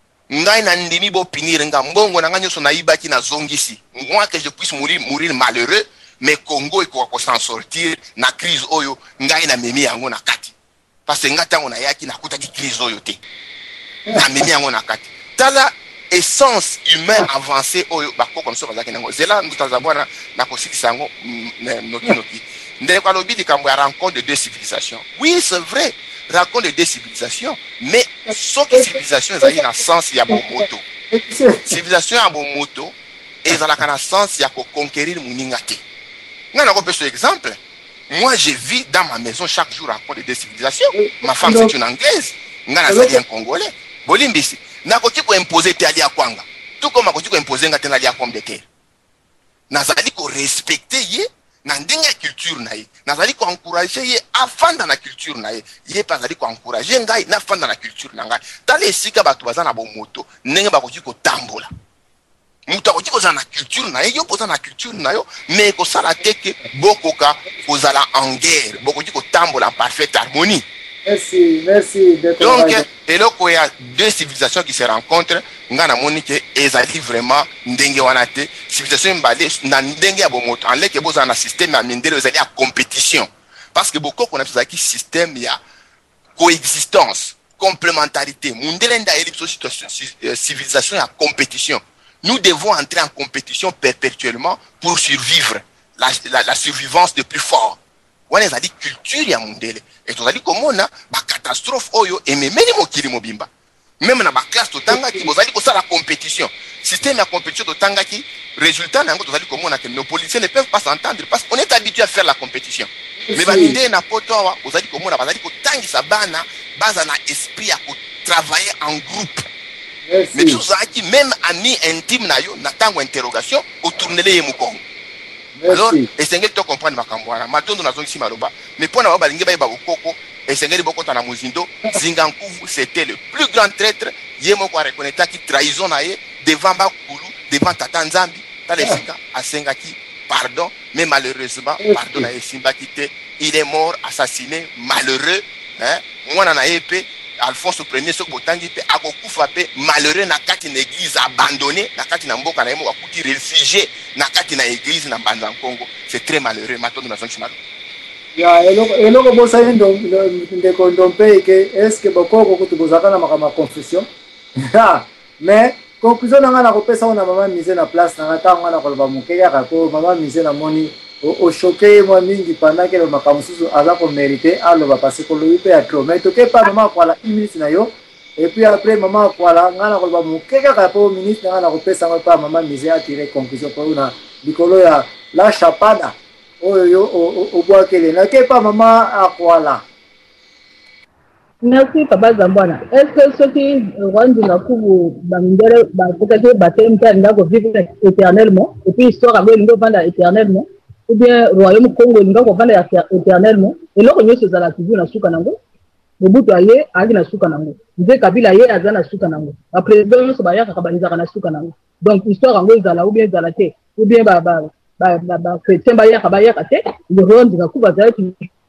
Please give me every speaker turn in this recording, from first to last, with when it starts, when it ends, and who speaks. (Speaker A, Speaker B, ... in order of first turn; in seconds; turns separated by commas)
Speaker A: 0.3-10.6, Speaker A: 11.1-13.2, Speaker A: 14.1-30.8, Speaker B: 28.7-29.6, Speaker B: 31.1-31.8, Speaker A: 31.7-35.8, Speaker A: 36.5-37.6, Speaker A: 38.1-48.6, Speaker B: 41.0-41.7, Speaker B: 42.9-43.2, Speaker A: 49.7-61.7, Speaker A: 62.7-70.7, Speaker B: 71.1-72.8, Speaker A: 72.4-85.6, Speaker A: 86.4-97.8, Speaker A: 98.3-103.5, Speaker A: 104.0-119.5, Speaker B: 113.3-113.8, Speaker B: 120.1-120.6, Speaker A: 120.3-124.8, Speaker B: 125.6-126.1, Speaker A: 125.7-157.6, Speaker B: 141.8-142.2, Speaker B: 158.4-164.1, Speaker B: 164.7-189.8, Speaker C: 191.6-205.6, Speaker C: 206.2-218.5